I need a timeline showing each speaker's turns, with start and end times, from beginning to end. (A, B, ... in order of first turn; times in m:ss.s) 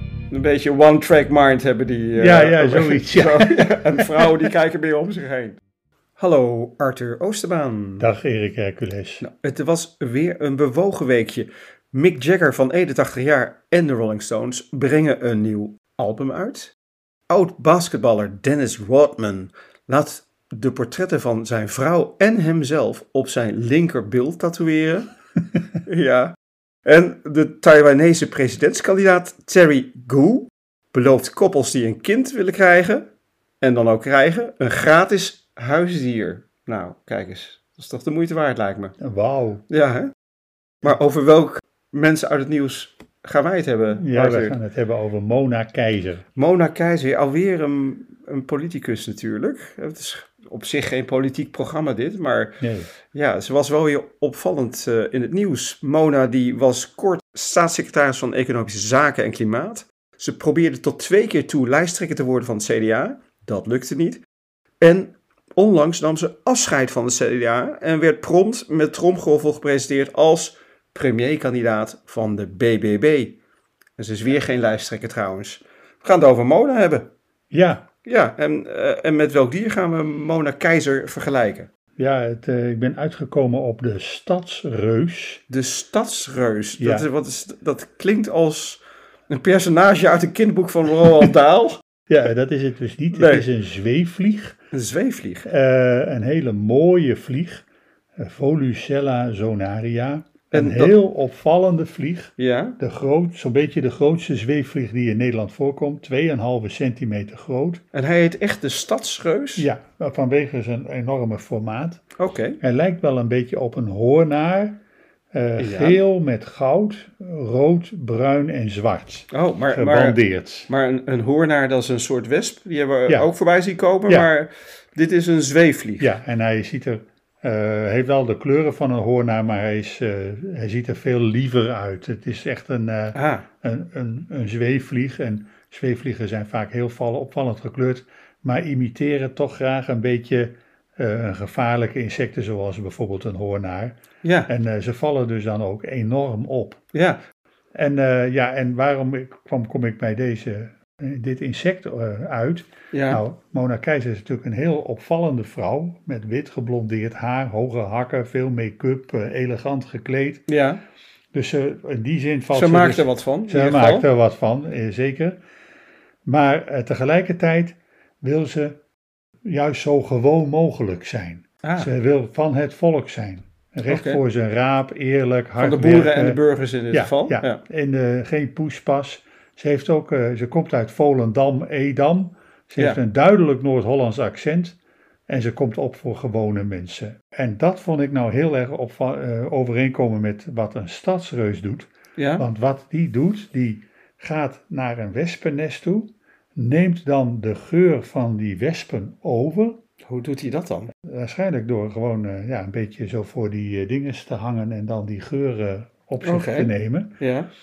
0:00.3-0:05.6 A
0:02.2-0:04.5 B
0:06.2-0:08.1 A
0:08.0-0:09.2 B
0:09.2-0:16.7 A
0:17.3-0:25.1 A
0:25.9-0:33.0 A
0:33.6-0:39.0 A
0:39.0-0:39.6 B
0:39.7-0:40.1 A
0:40.8-0:44.6 A
0:44.0-0:46.2 B
0:46.4-1:04.2 A
0:52.6-0:52.9 B
1:04.8-1:13.4 A
1:14.0-1:17.1 A
1:17.5-1:17.9 B
1:18.0-1:21.7 A
1:22.0-1:25.4 B
1:25.5-1:31.8 A
1:26.8-1:27.1 B
1:32.1-1:34.6 B
1:33.1-1:33.5 A
1:34.7-1:35.5 A
1:35.4-1:37.6 B
1:38.2-1:47.8 B
1:40.5-1:41.0 A
1:42.4-1:42.8 A
1:47.9-1:49.7 A
1:49.6-1:52.0 B
1:52.2-1:52.6 A
1:52.6-1:54.8 B
1:55.3-2:00.7 B
1:55.6-1:56.0 A
1:59.3-2:06.1 A
2:06.0-2:26.8 B
2:13.1-2:13.4 A
2:24.2-2:24.5 A
2:26.9-2:27.2 A
2:27.8-2:40.5 B
2:32.9-2:33.2 A
2:40.5-2:40.8 A
2:41.3-2:45.4 B
2:42.5-2:44.1 A
2:46.3-2:48.8 B
2:49.4-3:19.8 B
2:51.6-2:51.9 A
2:53.9-2:54.2 A
2:55.6-2:57.6 A
3:12.2-3:12.4 A
3:20.1-3:20.9 A
3:21.0-3:27.2 B
3:26.2-3:27.5 A